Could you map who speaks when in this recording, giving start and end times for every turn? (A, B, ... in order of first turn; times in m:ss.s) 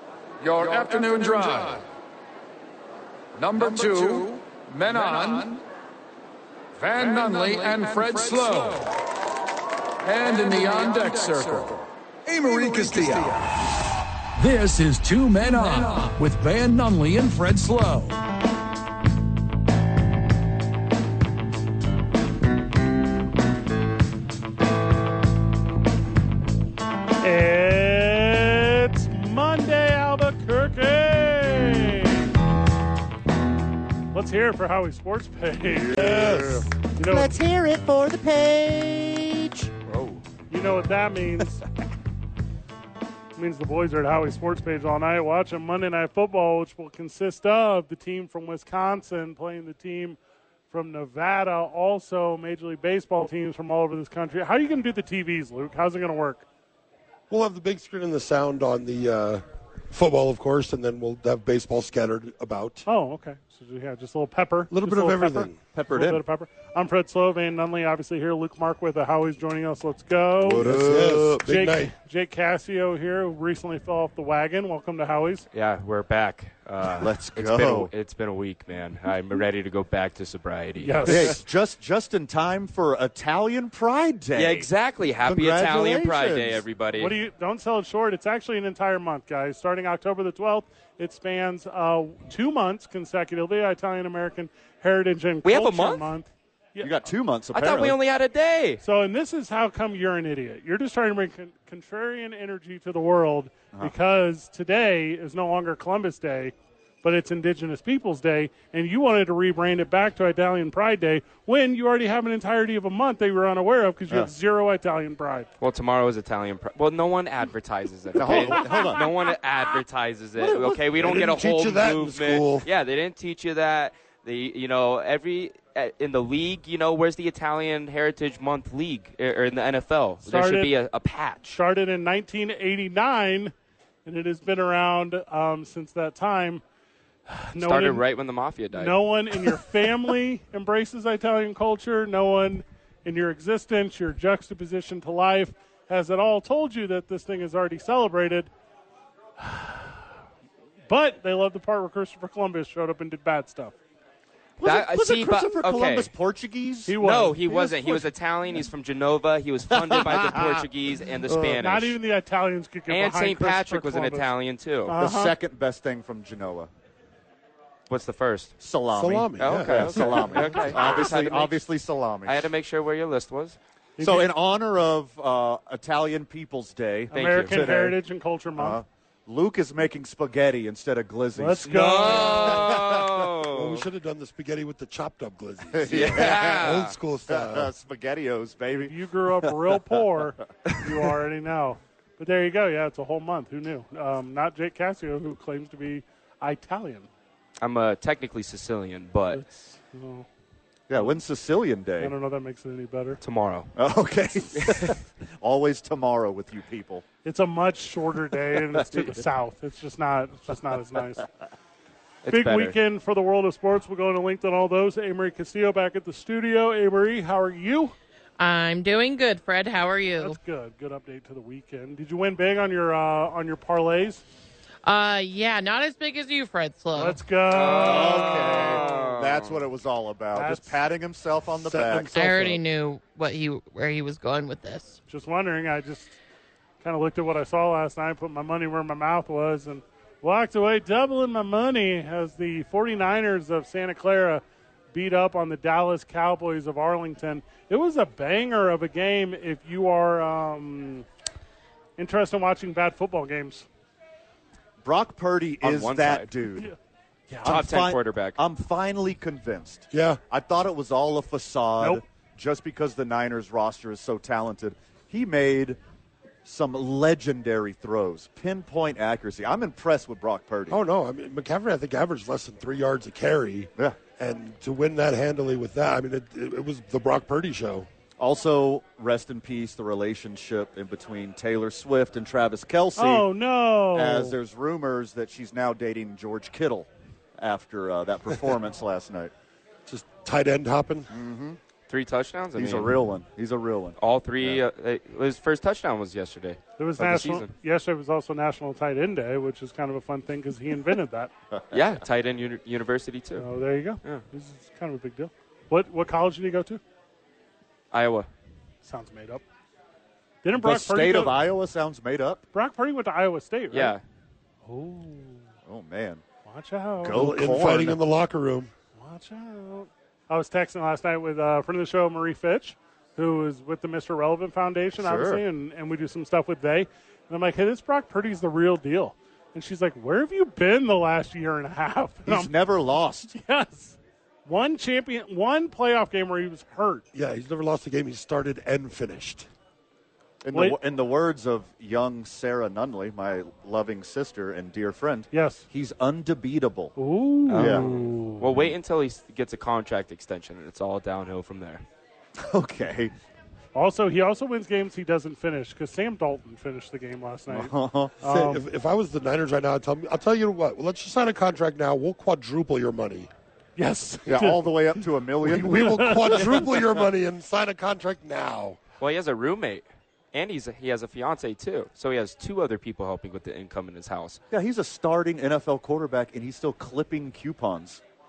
0:00.4-0:01.8 A
0:03.4-0:05.6 A
0:06.8-0:08.9 A
0:10.0-0:13.7 A
0:14.4-0:18.2 A
0:27.2-0:32.3 B
0:34.1-0:37.4 B
0:35.7-0:40.2 C
0:35.9-0:36.7 D
0:40.5-0:41.7 B
0:43.4-0:50.2 B
0:50.7-0:56.5 B
0:57.3-1:02.9 D
1:02.9-1:10.7 B
1:04.7-1:05.6 D
1:05.7-1:06.2 C
1:10.4-1:11.4 C
1:10.6-1:11.9 D
1:11.4-1:15.5 B
1:15.5-1:21.4 E
1:17.0-1:17.9 C
1:20.8-1:21.4 B
1:21.1-1:24.7 C
1:24.4-1:27.2 E
1:25.2-1:26.6 C
1:27.0-1:37.0 B
1:35.4-1:36.1 E
1:36.8-1:38.0 C
1:37.5-1:38.8 E
1:38.8-1:55.5 B
1:55.6-2:11.6 E
1:58.2-1:59.1 C
2:00.5-2:02.7 D
2:10.2-2:10.7 B
2:11.5-2:13.5 B
2:14.0-2:16.6 B
2:17.3-2:18.0 B
2:17.6-2:19.6 E
2:18.7-2:28.5 B
2:29.4-2:30.0 B
2:30.9-2:33.8 B
2:34.6-2:37.0 C
2:34.6-2:36.1 E
2:36.9-2:38.1 B
2:37.0-2:42.0 E
2:39.7-2:40.6 C
2:41.4-2:44.3 B
2:42.9-2:45.0 E
2:44.9-2:45.4 B
2:45.0-2:46.7 C
2:47.9-2:48.5 E
2:48.6-2:52.5 C
2:48.9-2:50.4 D
2:49.4-2:51.6 E
2:52.2-2:53.6 E
2:54.0-2:54.3 B
2:54.0-2:58.0 C
2:57.1-2:58.8 B
2:57.1-2:57.6 E
2:58.6-3:03.4 C
3:01.4-3:02.7 B
3:01.6-3:03.8 E
3:03.6-3:07.7 D
3:05.7-3:10.0 C
3:05.9-3:07.0 E
3:08.8-3:17.1 B
3:17.6-3:19.4 E
3:19.3-3:20.3 B
3:20.9-3:22.1 C
3:22.0-3:23.2 B
3:23.2-3:23.7 E
3:23.8-3:27.0 C
3:24.6-3:24.9 E
3:27.2-3:31.3 B
3:32.2-3:32.8 E
3:32.3-3:37.9 B
3:38.4-3:40.4 F
3:40.2-3:44.2 B
3:44.8-3:47.2 F
3:47.0-3:48.9 B
3:47.5-3:49.6 E
3:47.6-3:52.1 C
3:50.3-3:50.8 B
3:51.6-3:52.6 D
3:52.1-3:55.0 F
3:55.1-3:56.2 B
3:56.8-4:11.1 B
4:12.0-4:13.7 B
4:14.8-4:16.7 C
4:15.6-4:16.3 E
4:17.3-4:17.6 B
4:17.4-4:18.4 E
4:17.4-4:25.8 C
4:19.9-4:20.2 D
4:26.4-4:30.8 C
4:30.7-4:37.9 D
4:38.2-4:43.3 C
4:43.0-4:44.4 B
4:43.9-4:46.9 C
4:47.4-4:49.3 C
4:49.9-4:51.1 D
4:51.1-4:51.6 C
4:51.9-4:53.0 E
4:52.6-4:54.6 C
4:54.0-4:57.5 E
4:56.8-5:01.3 B
5:01.5-5:01.9 C
5:01.7-5:03.5 E
5:03.4-5:06.8 B
5:07.9-5:08.3 E
5:08.8-5:09.4 B
5:10.4-5:11.4 B
5:10.6-5:12.4 C
5:12.5-5:14.0 B
5:13.7-5:14.0 E
5:14.6-5:15.4 B
5:15.7-5:16.2 C
5:16.5-5:17.3 B
5:17.0-5:18.0 C
5:17.1-5:18.7 D
5:19.0-5:32.5 B
5:25.0-5:25.4 C
5:32.3-5:33.4 C
5:33.3-5:37.0 B
5:37.1-5:39.5 D
5:40.4-5:47.0 C
5:45.3-5:45.6 B
5:47.0-5:48.7 B
5:47.5-5:51.8 E
5:47.6-5:47.9 C
5:52.4-5:53.1 C
5:53.8-5:58.6 B
5:57.5-5:58.2 C
5:58.2-6:03.3 D
6:03.8-6:04.6 B
6:04.3-6:06.9 C
6:05.4-6:08.8 D
6:05.6-6:06.7 B
6:09.0-6:14.4 E
6:14.5-6:18.0 C